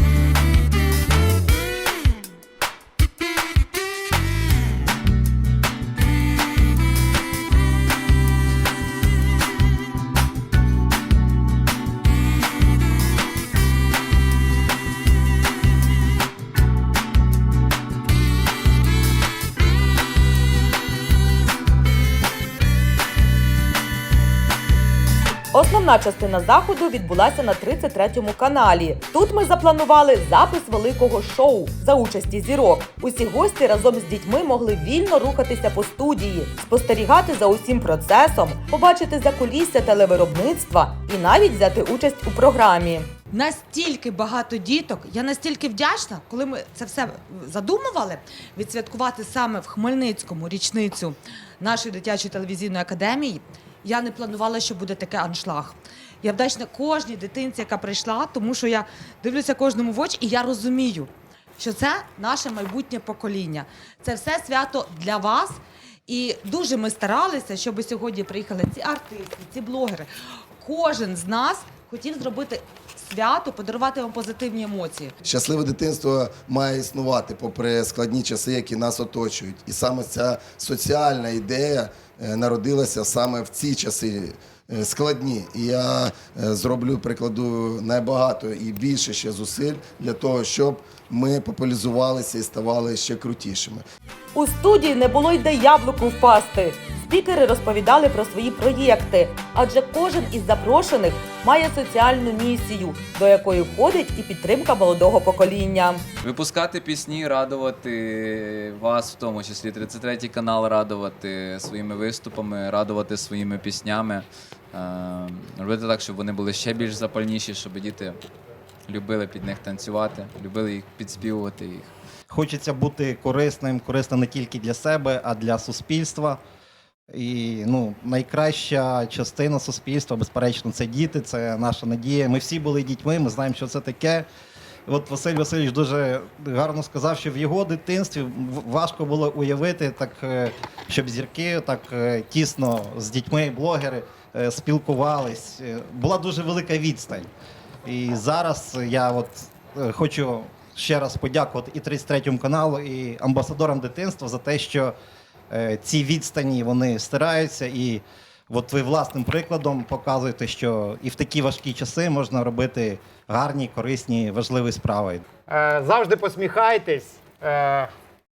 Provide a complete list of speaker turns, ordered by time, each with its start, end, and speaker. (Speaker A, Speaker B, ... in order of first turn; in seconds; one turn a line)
Speaker A: 25.5-43.1
Speaker B: 43.3-70.1
Speaker B: 70.6-75.1
Speaker C: 75.2-93.8
Speaker A: 94.3-106.0
Speaker D: 106.2-118.2
Speaker D: 118.9-121.9
Speaker E: 122.3-126.4
Speaker E: 127.1-134.3
Speaker E: 134.9-147.3
Speaker E: 147.8-154.9
Speaker E: 155.5-165.2
Speaker F: 165.5-167.8